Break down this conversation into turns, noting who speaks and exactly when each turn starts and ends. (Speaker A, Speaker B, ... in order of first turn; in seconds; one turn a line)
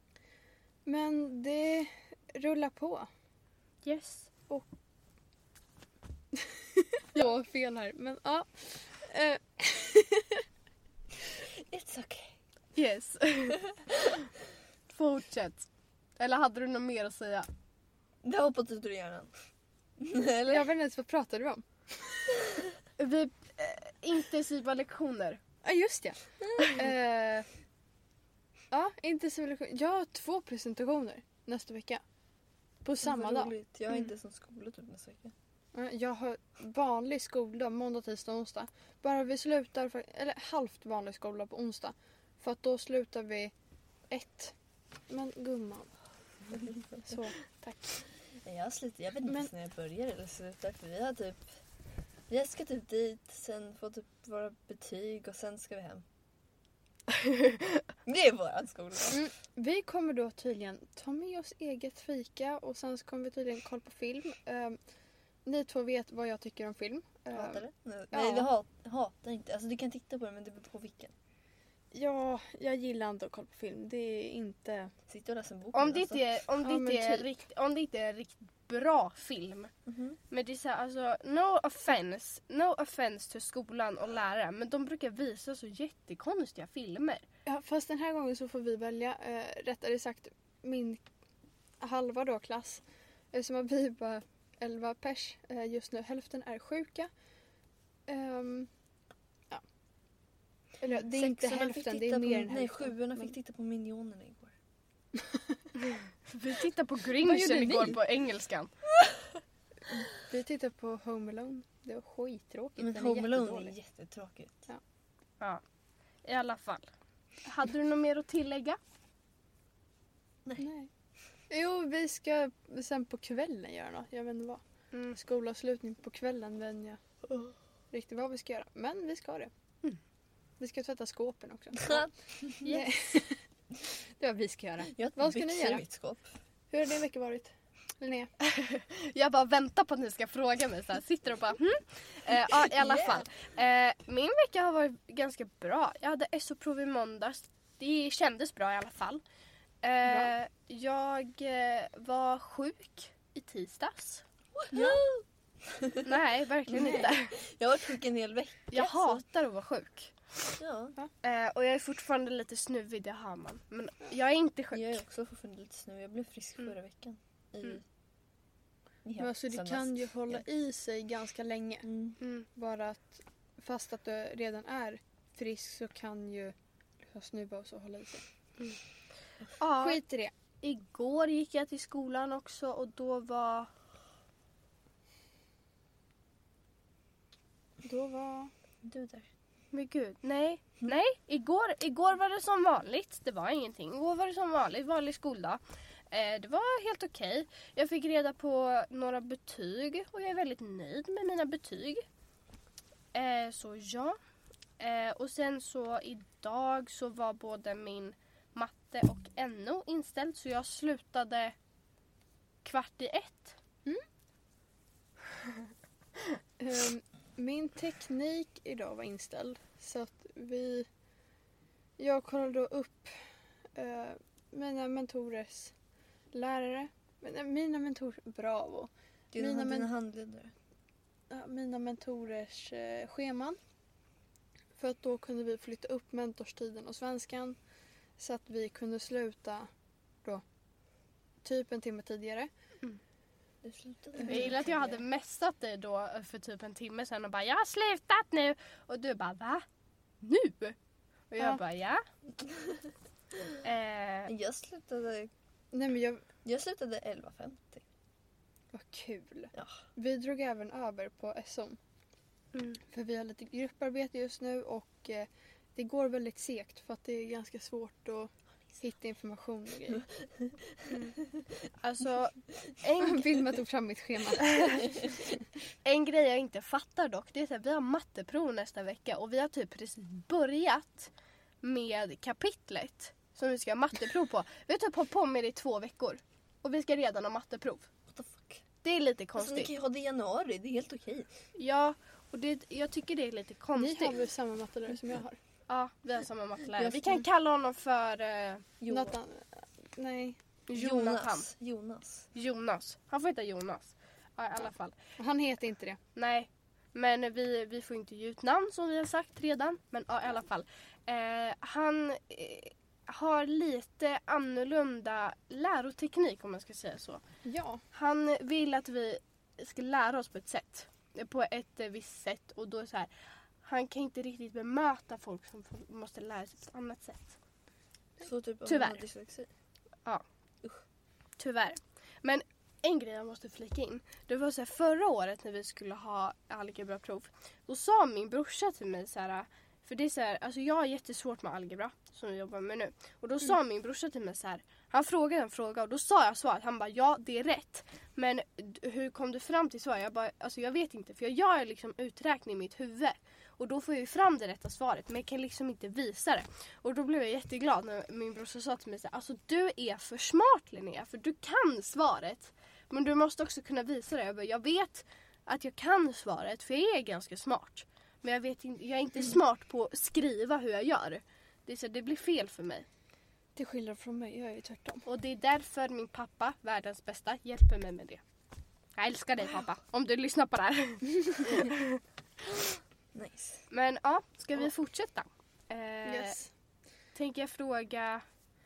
Speaker A: 0.8-3.1
Speaker B: 3.9-4.3
Speaker A: 6.4-10.4
Speaker C: 11.4-12.4
Speaker B: 12.8-13.6
Speaker B: 14.9-15.7
Speaker B: 16.2-17.5
Speaker C: 18.2-19.3
Speaker C: 20.0-20.7
Speaker A: 20.5-22.3
Speaker B: 23.0-25.4
Speaker A: 25.6-27.5
Speaker A: 28.7-32.0
Speaker A: 32.8-33.5
Speaker C: 33.0-35.3
Speaker A: 35.7-43.5
Speaker A: 44.1-44.5
Speaker A: 45.1-45.9
Speaker A: 46.6-48.0
Speaker C: 48.4-51.6
Speaker C: 52.3-56.0
Speaker B: 57.2-57.6
Speaker C: 58.0-59.2
Speaker A: 59.1-64.8
Speaker A: 65.5-68.5
Speaker C: 67.3-71.2
Speaker A: 71.9-74.9
Speaker C: 75.1-76.2
Speaker B: 75.7-79.7
Speaker A: 76.6-77.3
Speaker C: 79.9-80.2
Speaker B: 80.3-87.2
Speaker A: 87.5-91.0
Speaker A: 91.8-97.1
Speaker A: 98.1-98.7
Speaker A: 100.8-103.3
Speaker C: 101.1-104.5
Speaker B: 105.8-108.7
Speaker A: 107.2-108.0
Speaker A: 110.1-113.7
Speaker C: 112.8-114.7
Speaker B: 116.2-116.9
Speaker B: 117.4-118.8
Speaker A: 120.6-120.9
Speaker A: 121.5-124.6
Speaker B: 124.9-125.2
Speaker A: 125.2-127.0
Speaker A: 127.9-129.5
Speaker A: 130.6-135.8
Speaker C: 131.8-132.6
Speaker C: 134.9-136.3
Speaker A: 136.7-138.3
Speaker B: 138.4-149.2
Speaker C: 142.6-143.3
Speaker B: 149.8-154.2
Speaker A: 150.1-150.3
Speaker C: 154.6-156.1
Speaker A: 154.7-155.0
Speaker B: 156.0-157.3
Speaker C: 156.7-159.2
Speaker A: 156.8-157.1
Speaker B: 158.7-160.2
Speaker C: 160.6-161.0
Speaker B: 161.2-165.0
Speaker C: 164.7-167.8
Speaker C: 169.1-170.4
Speaker A: 169.2-171.9
Speaker C: 171.8-172.2
Speaker B: 172.2-172.5
Speaker A: 172.6-178.2
Speaker B: 179.6-180.0
Speaker A: 179.8-180.3
Speaker B: 180.6-183.7
Speaker A: 187.8-188.5
Speaker C: 188.8-189.3
Speaker B: 189.7-195.6
Speaker B: 196.1-202.1
Speaker B: 203.1-204.2
Speaker B: 204.8-211.6
Speaker B: 212.6-213.6
Speaker A: 216.6-220.9
Speaker A: 222.0-225.7
Speaker A: 226.3-229.9
Speaker C: 229.3-230.5
Speaker A: 231.3-233.6
Speaker A: 234.8-237.6
Speaker A: 238.2-239.7
Speaker A: 241.4-242.5
Speaker C: 243.6-245.0
Speaker B: 244.2-249.7
Speaker B: 250.2-250.8
Speaker B: 251.3-252.0
Speaker C: 252.4-252.9
Speaker B: 253.6-254.3
Speaker C: 254.3-255.3
Speaker A: 255.7-256.3
Speaker C: 256.4-257.8
Speaker A: 258.7-261.8
Speaker C: 259.5-259.8
Speaker B: 262.5-262.8
Speaker A: 262.9-270.1
Speaker B: 270.9-271.1
Speaker B: 271.8-273.4
Speaker A: 273.0-275.3
Speaker B: 274.4-274.9
Speaker B: 275.9-281.1
Speaker B: 281.6-287.9
Speaker C: 288.1-288.6
Speaker B: 288.8-289.7
Speaker C: 289.4-291.3
Speaker B: 291.6-294.2
Speaker A: 293.8-295.4
Speaker B: 295.7-298.7
Speaker C: 296.8-297.2
Speaker C: 298.8-299.2
Speaker A: 298.9-300.4
Speaker B: 300.7-301.5
Speaker C: 300.7-302.3
Speaker B: 302.3-305.0
Speaker A: 305.2-306.0
Speaker B: 306.2-317.2
Speaker A: 317.4-317.8
Speaker B: 317.9-323.1
Speaker B: 323.6-327.4
Speaker C: 328.2-329.5
Speaker B: 328.7-329.0
Speaker B: 331.4-372.9
Speaker A: 373.6-375.1
Speaker B: 375.1-378.2
Speaker B: 379.0-382.0
Speaker C: 383.1-383.6
Speaker B: 383.7-386.4
Speaker A: 386.1-386.5
Speaker B: 387.1-388.2